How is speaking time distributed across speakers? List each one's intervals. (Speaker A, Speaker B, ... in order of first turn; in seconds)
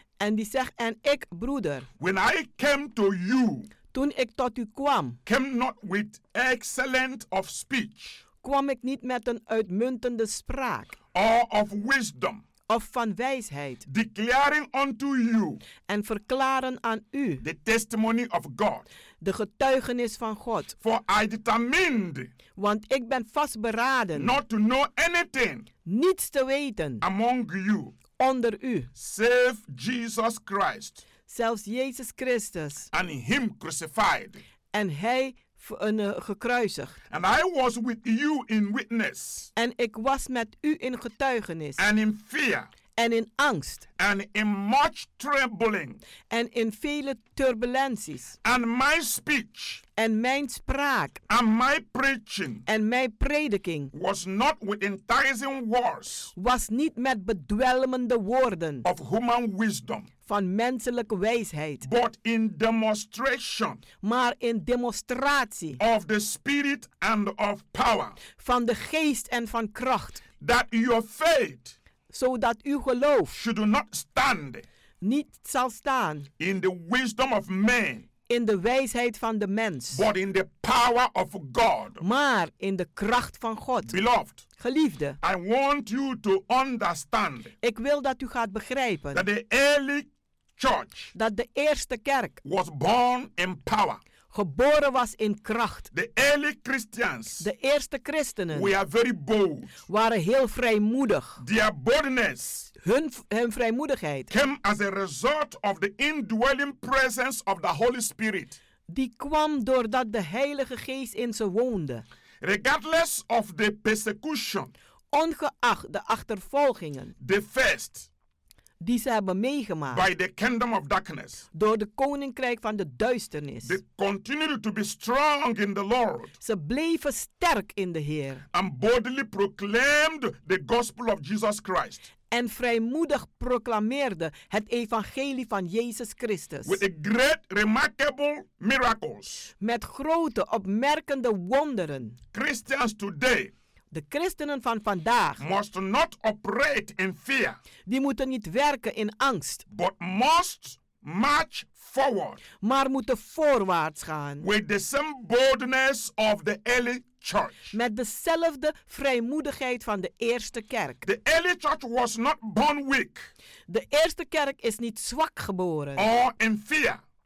Speaker A: 0.2-1.9, 3.9-5.2, 8.4-10.9, 12.7-13.8, 15.8-17.4, 19.2-20.8, 22.6-24.4, 25.9-27.0, 28.2-28.9, 31.3-32.9, 34.7-37.0, 39.5-41.8, 43.0-43.8, 46.3-48.4, 50.0-51.2, 52.7-53.9, 56.4-58.9, 60.2-61.9, 64.0-65.8, 68.3-70.2, 72.1-73.3, 75.0-76.3, 78.3-80.0, 82.0-84.0, 84.6-85.2, 87.6-89.2, 91.1-92.4, 94.3-95.9, 97.4-98.7, 99.9-101.4, 102.8-104.3, 108.9-112.0, 115.1-117.1, 118.8-120.1, 121.5-123.8, 126.4-128.4, 132.3-136.8, 139.6-142.2, 143.9-145.4, 147.9-149.6, 152.6-154.4, 157.7-161.0, 163.7-166.1
Speaker B: 2.0-3.7, 5.2-8.2, 11.1-12.4, 13.8-15.6, 17.4-18.9, 20.8-22.3, 24.1-25.7, 27.0-27.9, 29.0-31.0, 32.9-34.4, 37.1-39.5, 41.8-42.7, 44.0-46.0, 48.4-49.8, 51.3-52.6, 53.9-56.3, 58.8-60.1, 61.8-63.8, 65.8-68.2, 70.4-71.8, 73.3-74.6, 76.4-78.1, 79.9-82.0, 83.9-84.4, 85.2-87.5, 89.1-91.1, 92.4-94.0, 95.9-97.5, 98.5-99.7, 101.4-102.7, 104.3-108.6, 112.4-114.7, 117.2-118.1, 119.9-121.5, 123.6-126.3, 128.5-132.1, 136.6-139.5, 142.3-143.5, 145.4-147.6, 149.7-152.4, 154.4-157.7, 161.0-163.3, 166.0-167.0